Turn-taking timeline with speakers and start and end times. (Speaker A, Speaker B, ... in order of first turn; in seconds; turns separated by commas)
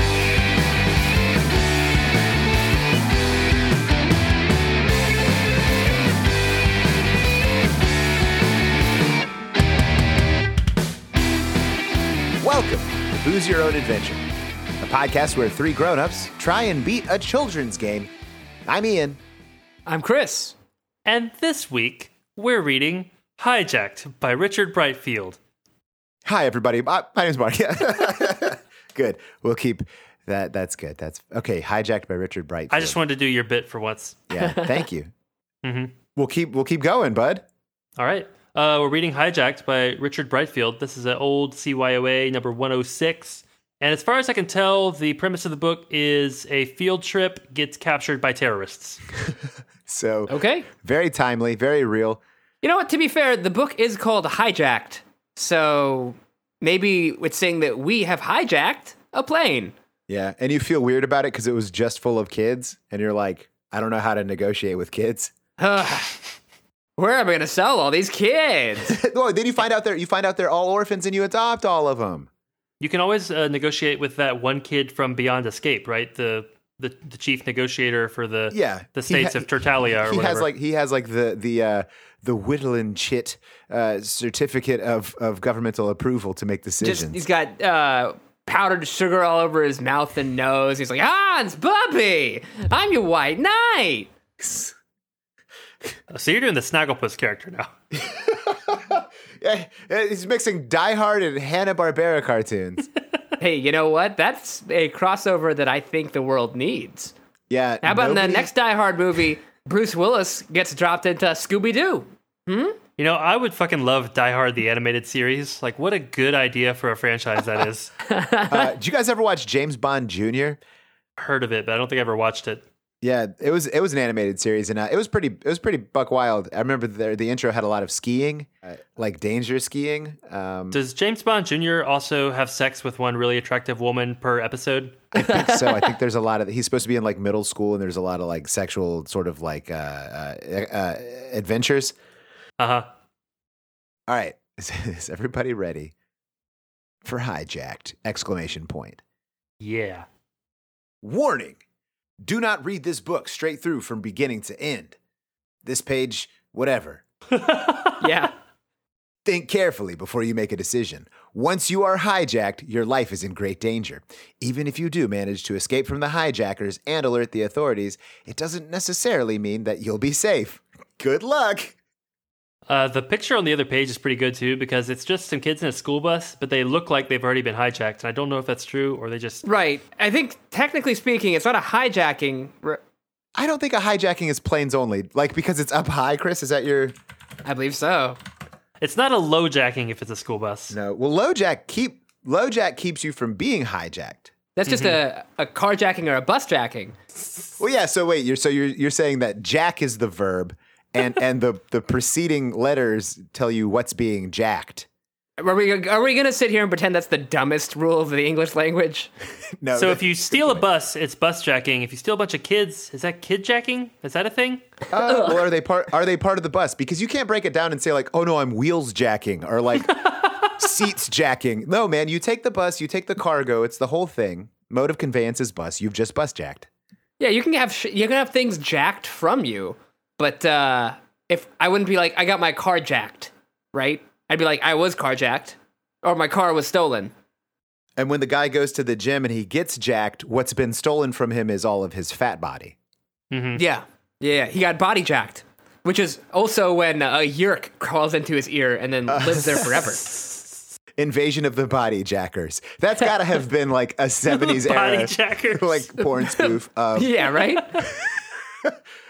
Speaker A: 12.4-14.2, Speaker A: 14.8-18.1, Speaker A: 18.6-19.2, Speaker B: 19.9-20.5, Speaker C: 21.0-25.4, Speaker A: 26.2-33.0, Speaker C: 32.7-34.2, Speaker A: 34.3-35.1, Speaker C: 35.6-35.9, Speaker A: 36.1-37.5, Speaker C: 38.0-49.0, Speaker A: 49.9-52.2, Speaker B: 50.3-50.7, Speaker B: 52.6-59.7, Speaker A: 60.1-65.3, Speaker B: 65.6-66.3, Speaker B: 67.0-69.0, Speaker A: 68.9-72.3, Speaker C: 72.8-80.5, Speaker A: 78.5-87.2, Speaker B: 86.8-94.1, Speaker A: 94.4-94.7, Speaker C: 96.1-97.7, Speaker A: 97.9-102.9, Speaker B: 103.4-107.1, Speaker A: 107.5-108.5, Speaker B: 107.8-112.8, Speaker C: 113.0-117.9, Speaker B: 118.0-118.7, Speaker A: 118.5-120.6, Speaker C: 121.2-122.6, Speaker A: 123.0-130.8, Speaker C: 130.7-135.0, Speaker A: 135.1-141.9, Speaker C: 142.6-142.8, Speaker A: 144.1-145.9, Speaker A: 147.0-149.0, Speaker C: 149.6-150.1, Speaker A: 151.0-151.6, Speaker A: 152.2-154.9, Speaker A: 155.6-157.0, Speaker C: 157.3-158.1, Speaker B: 158.0-158.3, Speaker A: 159.2-171.8, Speaker C: 172.7-179.4, Speaker B: 179.4-182.8, Speaker A: 183.3-186.9, Speaker B: 187.4-188.2, Speaker C: 188.8-190.8, Speaker A: 190.7-194.3, Speaker B: 194.6-197.0, Speaker C: 194.7-195.0, Speaker A: 197.6-204.9, Speaker B: 205.4-209.1, Speaker A: 209.6-210.6, Speaker C: 209.7-214.6, Speaker A: 214.9-226.7, Speaker B: 215.1-215.4, Speaker B: 227.2-237.1, Speaker A: 238.0-242.8, Speaker C: 243.3-243.6, Speaker B: 243.6-250.1, Speaker A: 249.1-249.8, Speaker A: 251.0-257.2, Speaker C: 254.3-255.9, Speaker B: 256.4-257.8